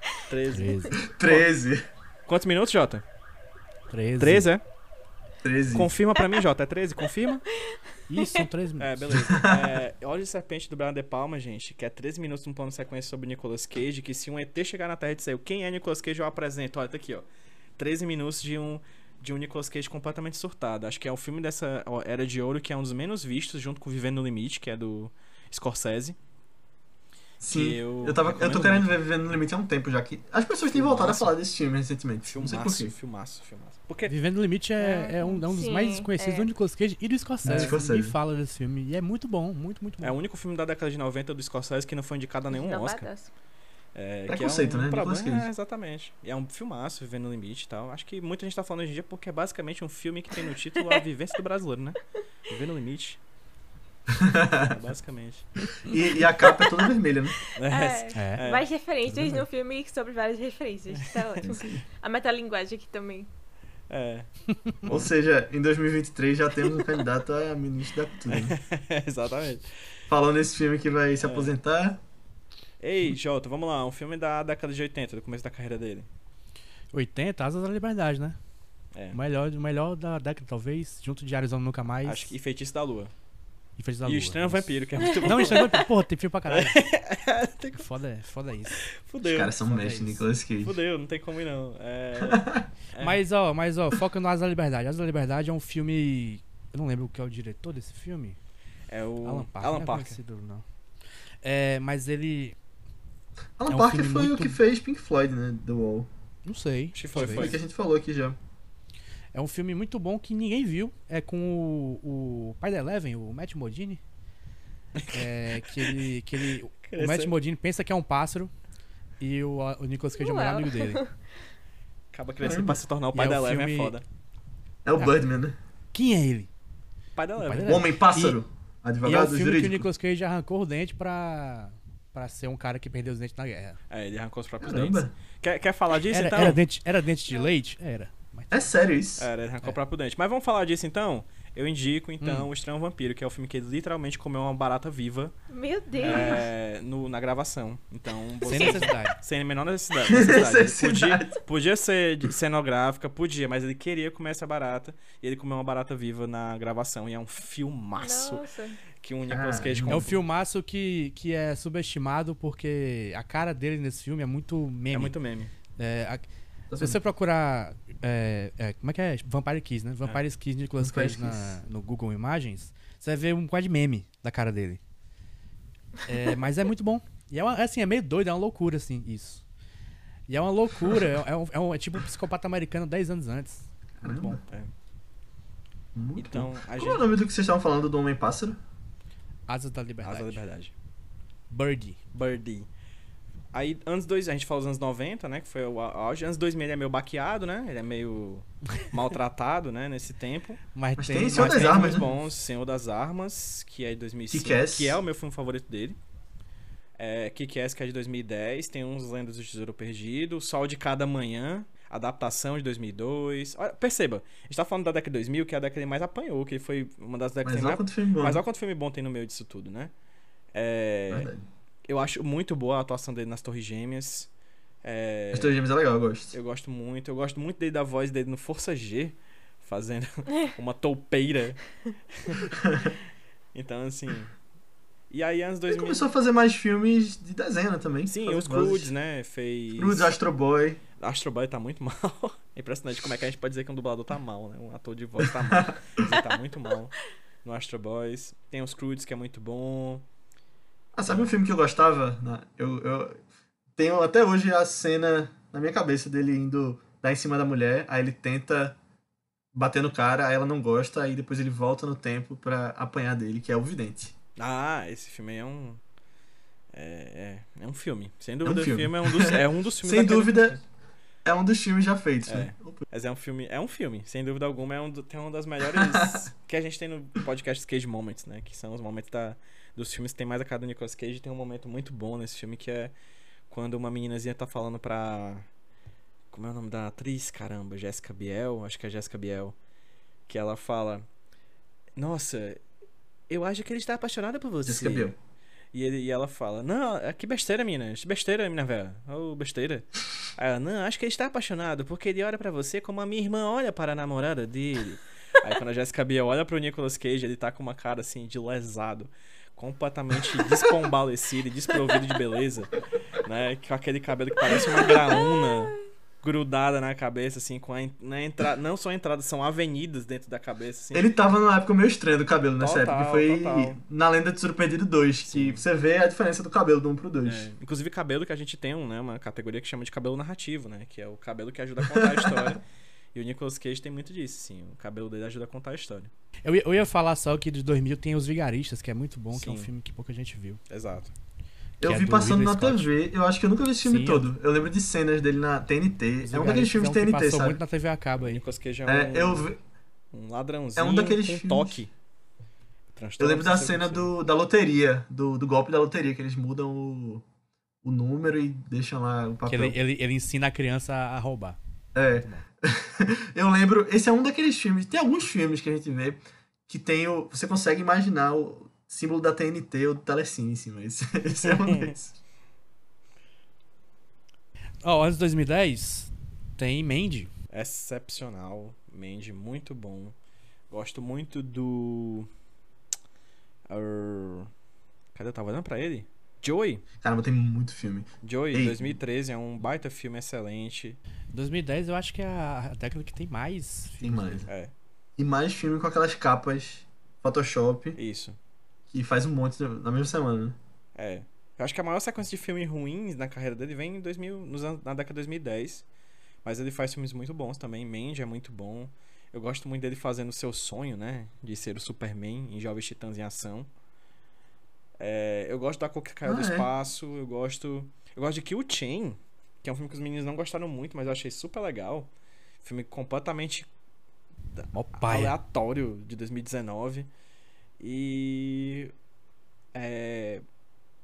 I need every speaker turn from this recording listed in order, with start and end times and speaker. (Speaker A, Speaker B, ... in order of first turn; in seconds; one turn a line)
Speaker A: 0.3-1.5
Speaker B: 0.5-1.0
Speaker C: 1.0-1.8
Speaker A: 2.3-3.0
Speaker B: 3.9-4.5
Speaker A: 4.2-4.6
Speaker C: 5.4-5.9
Speaker A: 5.7-7.4
Speaker B: 8.1-9.0
Speaker A: 8.8-17.3
Speaker C: 9.2-9.7
Speaker A: 17.8-26.1
Speaker C: 27.4-32.9
Speaker A: 27.4-29.0
Speaker A: 30.7-31.3
Speaker A: 32.2-34.1
Speaker B: 34.1-40.1
Speaker D: 34.8-36.5
Speaker C: 37.4-38.1
Speaker A: 37.5-37.7
Speaker A: 40.0-43.1
Speaker D: 42.5-43.3
Speaker A: 43.9-53.2
Speaker C: 44.3-45.5
Speaker C: 54.1-54.7
Speaker A: 54.6-55.6
Speaker C: 55.8-57.4
Speaker A: 57.5-58.6
Speaker D: 57.7-63.3
Speaker B: 58.1-58.4
Speaker B: 59.1-59.4
Speaker C: 61.4-61.8
Speaker A: 63.9-64.3
Speaker A: 64.8-65.1
Speaker C: 64.9-68.5
Speaker A: 68.3-69.7
Speaker C: 70.1-72.0
Speaker A: 71.2-71.5
Speaker A: 72.8-76.1
Speaker B: 76.9-78.4
Speaker B: 79.1-82.3
Speaker A: 82.0-83.1
Speaker B: 83.8-86.8
Speaker A: 84.0-85.9
Speaker A: 86.5-87.8
Speaker B: 87.7-88.8
Speaker A: 88.7-89.5
Speaker C: 89.2-90.7
Speaker B: 89.6-90.2
Speaker A: 90.6-93.2
Speaker C: 92.2-92.6
Speaker B: 93.0-98.4
Speaker A: 98.9-100.2
Speaker B: 99.2-100.6
Speaker B: 101.4-102.5
Speaker C: 103.6-106.1
Speaker B: 103.7-104.6
Speaker B: 106.4-107.5
Speaker A: 106.9-107.6
Speaker C: 107.1-108.4
Speaker B: 109.3-114.0
Speaker A: 114.9-116.0
Speaker B: 115.1-118.5
Speaker A: 116.9-117.3
Speaker B: 119.2-121.0
Speaker D: 120.2-121.1
Speaker A: 122.1-124.0
Speaker C: 122.4-122.8
Speaker B: 123.1-123.9
Speaker C: 124.8-125.5
Speaker B: 125.9-126.5
Speaker A: 127.2-127.8
Speaker B: 127.4-128.4
Speaker C: 127.6-129.9
Speaker B: 129.0-133.8
Speaker A: 133.9-136.6
Speaker C: 134.6-135.1
Speaker B: 136.1-138.7
Speaker C: 138.5-139.3
Speaker A: 139.2-145.3
Speaker B: 142.2-142.5
Speaker D: 145.5-146.5
Speaker A: 146.0-158.4
Speaker B: 148.4-149.2
Speaker D: 148.5-148.8
Speaker C: 150.0-151.4
Speaker D: 158.0-158.8
Speaker A: 159.0-160.2
Speaker C: 159.3-160.1
Speaker B: 159.9-165.1
Speaker A: 164.9-165.5
Speaker B: 165.8-166.2
Speaker C: 166.7-167.0
Speaker B: 166.8-174.8
Speaker C: 170.8-171.6
Speaker B: 176.1-179.4
Speaker B: 180.3-184.4
Speaker C: 184.0-184.4
Speaker C: 185.9-188.6
Speaker A: 186.2-187.0
Speaker B: 189.5-190.4
Speaker A: 190.0-190.7
Speaker B: 191.5-192.0
Speaker A: 192.1-192.7
Speaker A: 193.5-200.6
Speaker B: 200.7-202.0
Speaker C: 201.0-202.1
Speaker A: 201.3-206.0
Speaker C: 204.3-205.0
Speaker A: 207.0-219.9
Speaker C: 217.4-218.4
Speaker A: 220.5-221.3
Speaker C: 221.1-221.4
Speaker A: 221.9-224.3
Speaker A: 224.8-225.5
Speaker C: 225.3-226.3
Speaker A: 226.3-231.6
Speaker A: 232.2-232.6
Speaker C: 232.5-232.9
Speaker A: 233.5-234.3
Speaker A: 235.1-236.1
Speaker C: 235.7-238.9
Speaker A: 238.1-240.1
Speaker C: 239.8-240.8
Speaker A: 241.0-250.0
Speaker C: 245.5-246.1
Speaker C: 250.9-253.2
Speaker C: 253.8-258.8
Speaker C: 259.5-264.1
Speaker A: 264.4-265.8
Speaker A: 266.7-270.6
Speaker C: 268.4-270.6
Speaker C: 271.2-272.8
Speaker A: 272.2-282.9
Speaker C: 275.8-276.2
Speaker A: 283.5-285.5
Speaker A: 286.3-289.6
Speaker A: 290.3-291.0
Speaker A: 292.0-292.6
Speaker A: 293.3-295.1
Speaker C: 294.6-295.1
Speaker A: 295.7-321.1
Speaker C: 320.9-327.5
Speaker A: 322.6-323.8
Speaker A: 325.2-325.6
Speaker A: 327.2-332.6
Speaker C: 331.8-332.6
Speaker A: 333.1-336.1
Speaker B: 336.4-340.6
Speaker A: 339.3-339.7
Speaker A: 340.7-341.1
Speaker C: 341.8-347.6
Speaker B: 341.8-342.9
Speaker B: 343.8-344.3
Speaker B: 346.2-348.4
Speaker A: 348.2-349.5
Speaker C: 348.9-349.6
Speaker A: 350.1-351.9
Speaker C: 350.8-351.8
Speaker A: 352.9-354.1
Speaker C: 353.2-357.2
Speaker C: 357.8-359.8
Speaker B: 359.4-361.6
Speaker C: 361.9-372.1
Speaker A: 371.4-371.9
Speaker B: 374.8-377.3
Speaker A: 377.5-380.1
Speaker A: 380.7-382.3
Speaker A: 383.7-384.5
Speaker A: 385.1-386.8
Speaker C: 387.0-388.9
Speaker A: 388.2-391.0
Speaker B: 391.3-394.4
Speaker C: 394.0-394.5
Speaker A: 394.5-394.7
Speaker C: 395.2-398.0
Speaker A: 397.9-398.4
Speaker C: 398.9-400.6
Speaker A: 400.9-405.8
Speaker A: 406.4-413.7
Speaker A: 415.0-422.1
Speaker C: 416.2-416.7
Speaker A: 422.6-423.7
Speaker A: 424.5-427.1
Speaker B: 424.7-425.3
Speaker A: 427.8-428.9
Speaker A: 429.7-430.4